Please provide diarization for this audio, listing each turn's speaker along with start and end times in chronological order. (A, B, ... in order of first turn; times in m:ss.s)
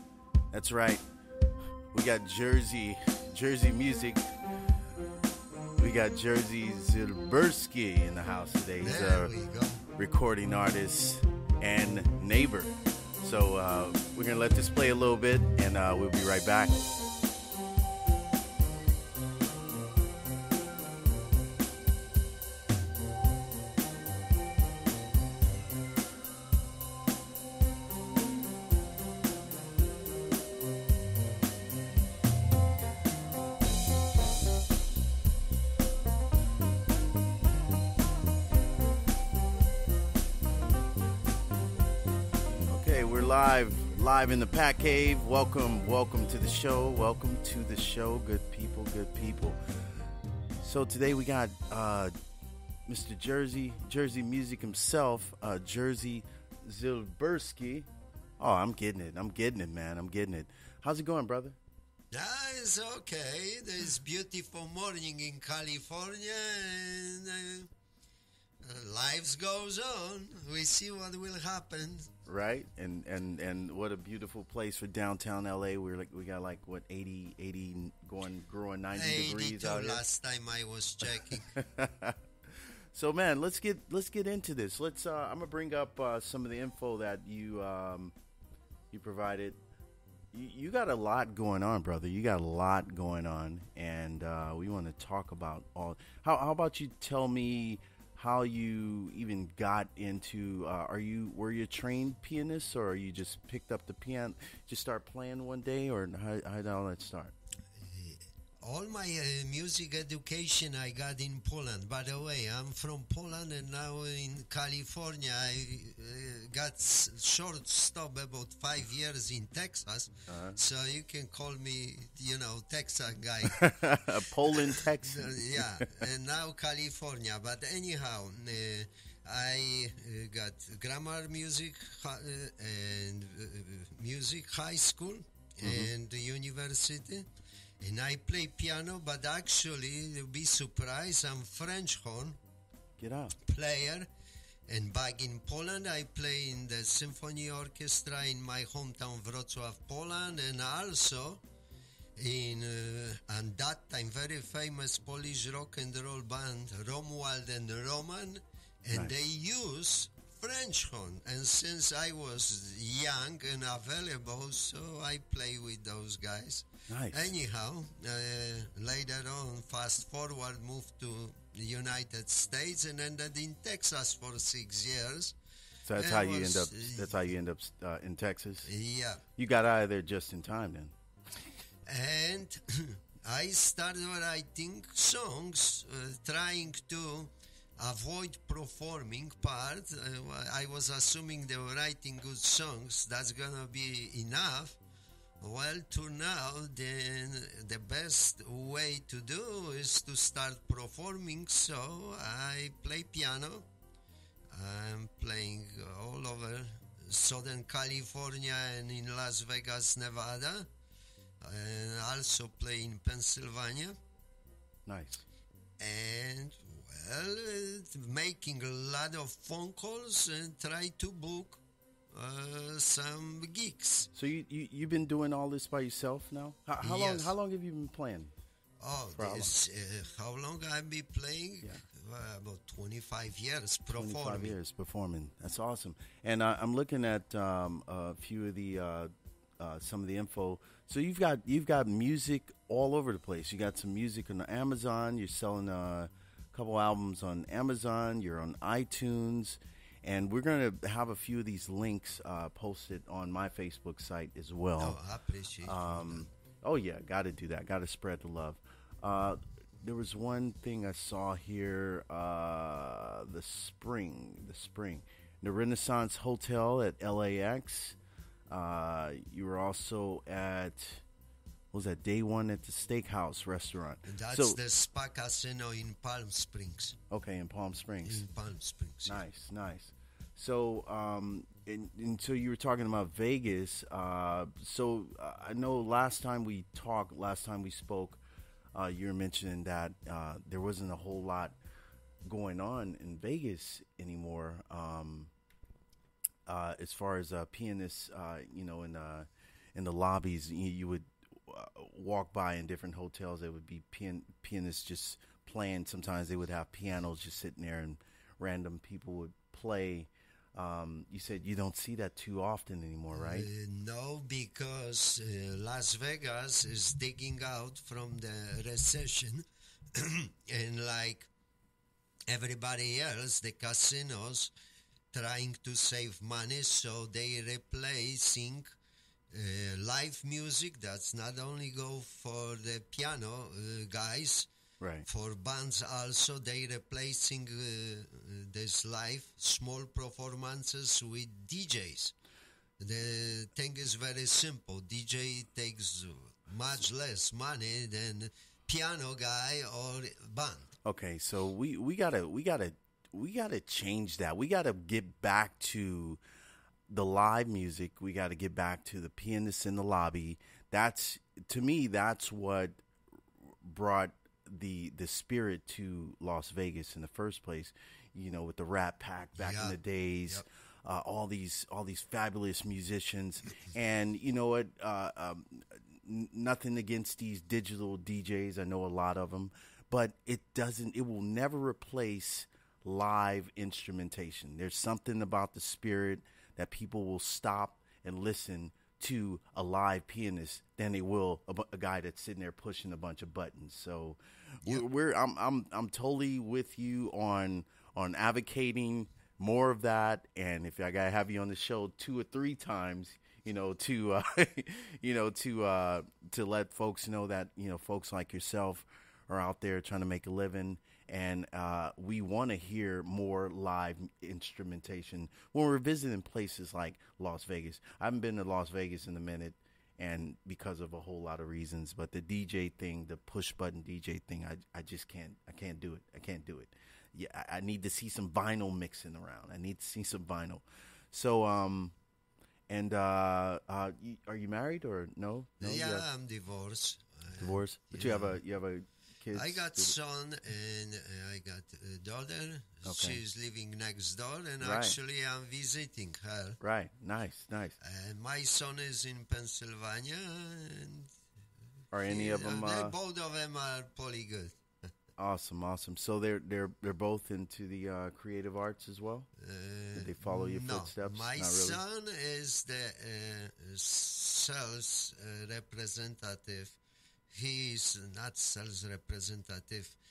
0:00.5-0:01.0 A
0:01.9-0:04.3 A
0:05.8-0:09.3 A
0:08.8-0:09.8 B
0:10.0-0:16.8 A
0:42.7-0:49.6 A
0:50.6-0:52.1 A
0:52.9-1:01.6 A
1:02.1-1:07.7 B
1:08.6-1:12.1 B
1:12.2-1:20.0 A
1:18.9-1:21.5 B
1:21.0-1:28.1 A
1:28.9-1:29.6 A
1:30.3-1:47.3 A
1:47.8-2:17.3 B
2:00.3-2:00.6 A
2:03.5-2:06.0 A
2:15.6-2:15.9 A
2:17.8-2:22.4 B
2:23.0-2:23.4 A
2:23.4-2:24.1 B
2:24.7-2:31.4 B
2:32.2-2:55.4 B
2:46.9-2:47.3 A
2:55.8-2:58.7 A
2:56.0-2:57.2 B
2:58.6-2:59.2 B
2:59.4-3:00.9 A
3:01.9-3:14.8 B
3:15.4-3:23.7 B
3:24.5-3:30.7 B
3:31.4-3:34.0 B
3:34.9-3:35.2 A
3:35.8-3:44.1 B
3:44.1-3:48.3 A
3:46.8-3:47.4 B
3:48.8-3:54.6 B
3:49.2-3:49.5 A
3:54.0-4:15.0 A
4:14.8-4:16.3 B
4:15.6-4:28.0 A
4:28.5-4:31.0 A
4:31.7-4:34.6 A
4:34.0-4:37.0 B
4:37.1-4:38.2 A
4:38.0-4:39.2 B
4:39.1-4:48.2 A
4:48.7-4:51.6 A
4:52.3-4:55.3 A
4:56.5-5:13.5 A
5:13.1-5:21.3 B
5:22.3-5:24.5 B
5:25.1-5:28.7 B
5:29.3-5:34.5 B
5:34.8-5:35.1 A
5:35.1-5:42.1 B
5:42.8-5:50.7 B
5:50.8-5:56.2 A
5:56.9-6:02.8 A
6:03.5-7:12.0 A
6:09.4-6:10.4 B
7:12.7-7:16.1 A
7:15.6-7:18.4 B
7:17.4-7:20.0 A
7:19.3-7:26.6 B
7:22.8-7:23.2 A
7:24.6-7:25.0 A
7:26.6-7:27.8 A
7:27.8-7:31.1 B
7:31.9-7:33.0 A
7:32.1-7:34.6 B
7:35.2-7:39.3 A
7:39.4-7:46.8 B
7:40.0-7:41.8 A
7:47.3-7:50.0 B